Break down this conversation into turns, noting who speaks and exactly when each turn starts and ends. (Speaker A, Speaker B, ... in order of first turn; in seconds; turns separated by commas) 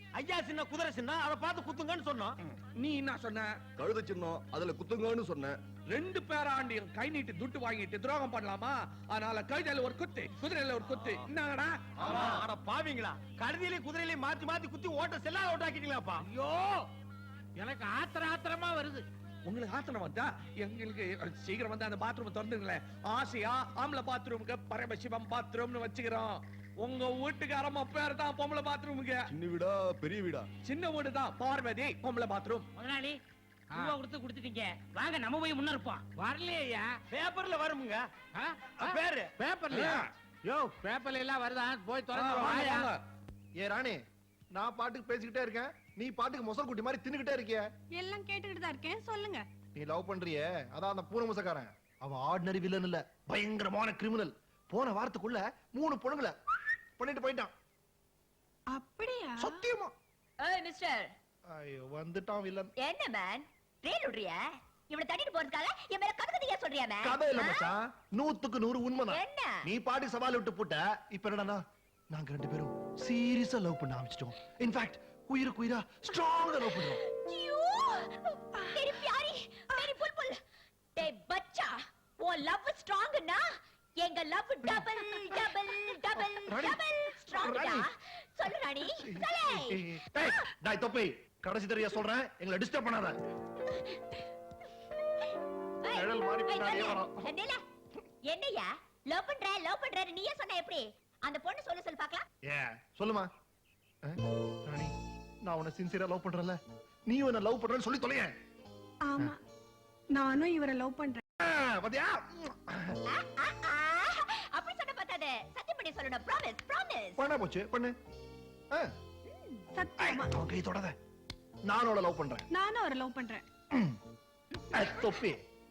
Speaker A: 0.2-2.4, Speaker B: 2.5-3.6, Speaker C: 3.8-5.6, Speaker B: 5.9-12.4, Speaker A: 12.0-16.2, Speaker C: 12.1-12.4, Speaker D: 16.2-16.8, Speaker D: 17.6-19.1, Speaker B: 19.5-29.3, Speaker C: 29.3-30.5, Speaker B: 30.6-32.7, Speaker E: 32.8-33.2, Speaker E: 33.8-36.0, Speaker D: 36.2-36.9, Speaker A: 37.1-38.0, Speaker D: 38.4-42.9, Speaker A: 38.8-39.3, Speaker B: 39.7-40.1, Speaker B: 42.1-43.0, Speaker F: 43.6-44.0, Speaker F: 44.5-47.7, Speaker G: 48.0-49.5, Speaker F: 49.8-56.4, Speaker F: 57.0-57.5, Speaker G: 58.7-59.6, Speaker F: 59.4-59.9, Speaker H: 60.4-61.1, Speaker F: 61.5-62.7, Speaker H: 62.8-67.7, Speaker F: 67.0-77.0, Speaker H: 69.1-69.6, Speaker H: 76.9-80.4, Speaker G: 78.6-78.9, Speaker H: 81.0-90.3, Speaker F: 86.2-87.9, Speaker F: 88.8-93.2, Speaker H: 93.7-94.0, Speaker H: 95.8-97.6, Speaker F: 95.9-97.2, Speaker H: 98.3-102.3, Speaker F: 102.5-103.3, Speaker F: 104.0-104.9, Speaker F: 105.5-108.3, Speaker G: 109.1-109.4, Speaker G: 110.1-111.2, Speaker F: 111.4-113.0, Speaker H: 113.1-117.2, Speaker F: 117.2-118.0, Speaker H: 119.3-119.6, Speaker G: 119.8-120.3, Speaker F: 120.0-121.0, Speaker F: 121.7-122.5, Speaker G: 122.5-123.4, Speaker F: 123.7-124.0, Speaker H: 124.5-125.0, Speaker F: 124.7-125.4